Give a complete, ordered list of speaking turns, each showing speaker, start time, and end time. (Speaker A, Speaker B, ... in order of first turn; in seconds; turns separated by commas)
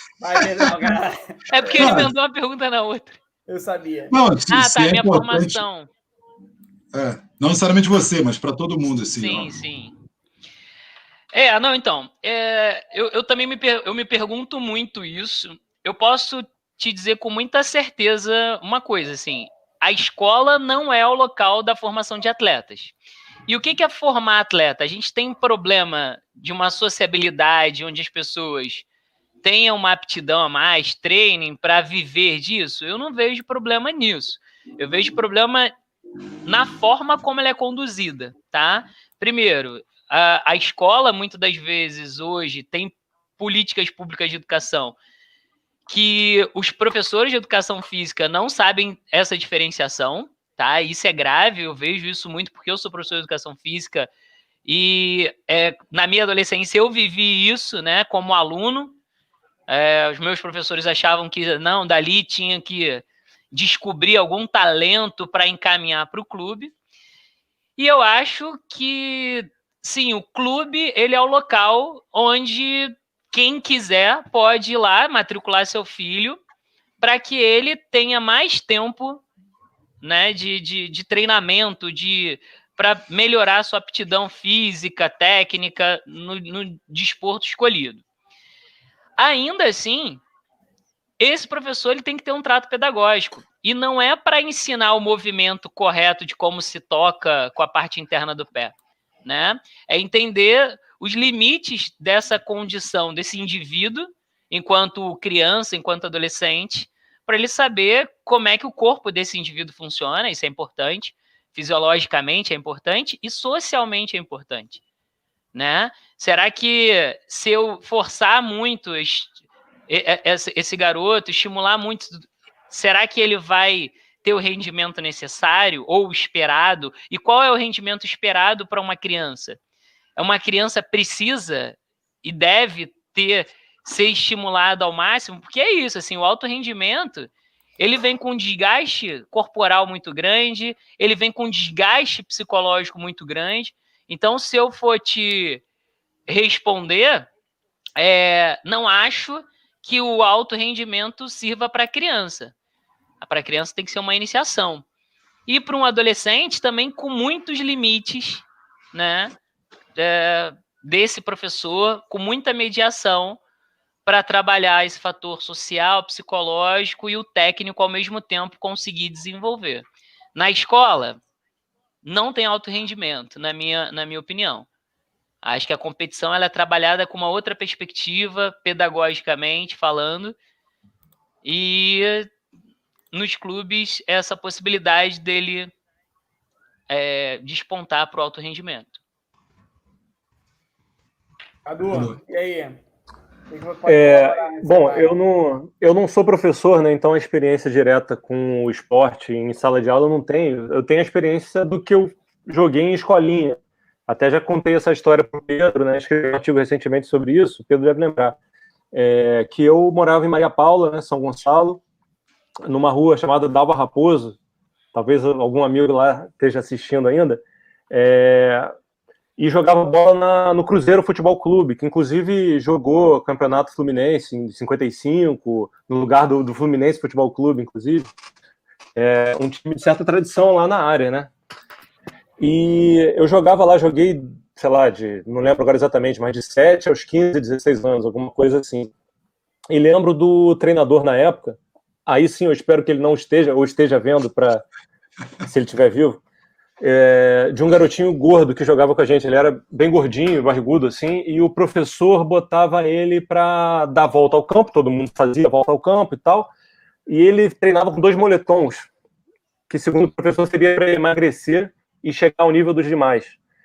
Speaker A: 0.2-2.0, Speaker B: 1.5-3.2, Speaker C: 1.7-2.1, Speaker A: 3.5-4.1, Speaker C: 4.1-5.6, Speaker B: 4.5-5.9, Speaker C: 6.9-9.5, Speaker B: 9.2-10.0, Speaker B: 11.3-22.9, Speaker B: 23.5-28.9, Speaker B: 29.4-35.7, Speaker B: 36.5-45.0, Speaker B: 45.9-54.1, Speaker B: 54.6-59.0, Speaker B: 59.7-66.7, Speaker B: 67.8-76.4, Speaker B: 77.0-79.2, Speaker B: 80.0-88.0, Speaker B: 89.2-90.2, Speaker B: 91.2-98.7, Speaker B: 99.2-114.8, Speaker B: 115.5-119.4, Speaker B: 119.9-129.6, Speaker B: 130.2-145.6, Speaker B: 146.3-147.3, Speaker B: 148.0-152.5, Speaker B: 153.2-154.8, Speaker B: 155.5-159.4, Speaker B: 160.0-163.4, Speaker B: 164.1-171.2, Speaker B: 172.0-174.7, Speaker B: 175.4-180.4, Speaker B: 181.4-182.3, Speaker B: 183.1-185.7, Speaker B: 186.9-188.9, Speaker A: 191.7-192.8, Speaker C: 191.9-192.2, Speaker A: 193.5-195.1, Speaker D: 193.9-208.4, Speaker D: 208.9-211.8, Speaker D: 212.7-214.4, Speaker D: 214.9-218.7, Speaker D: 219.4-228.1, Speaker D: 229.0-231.3, Speaker D: 232.4-238.9, Speaker D: 239.7-244.6, Speaker D: 245.4-246.2, Speaker D: 246.8-256.5, Speaker D: 257.1-258.9, Speaker D: 259.7-263.4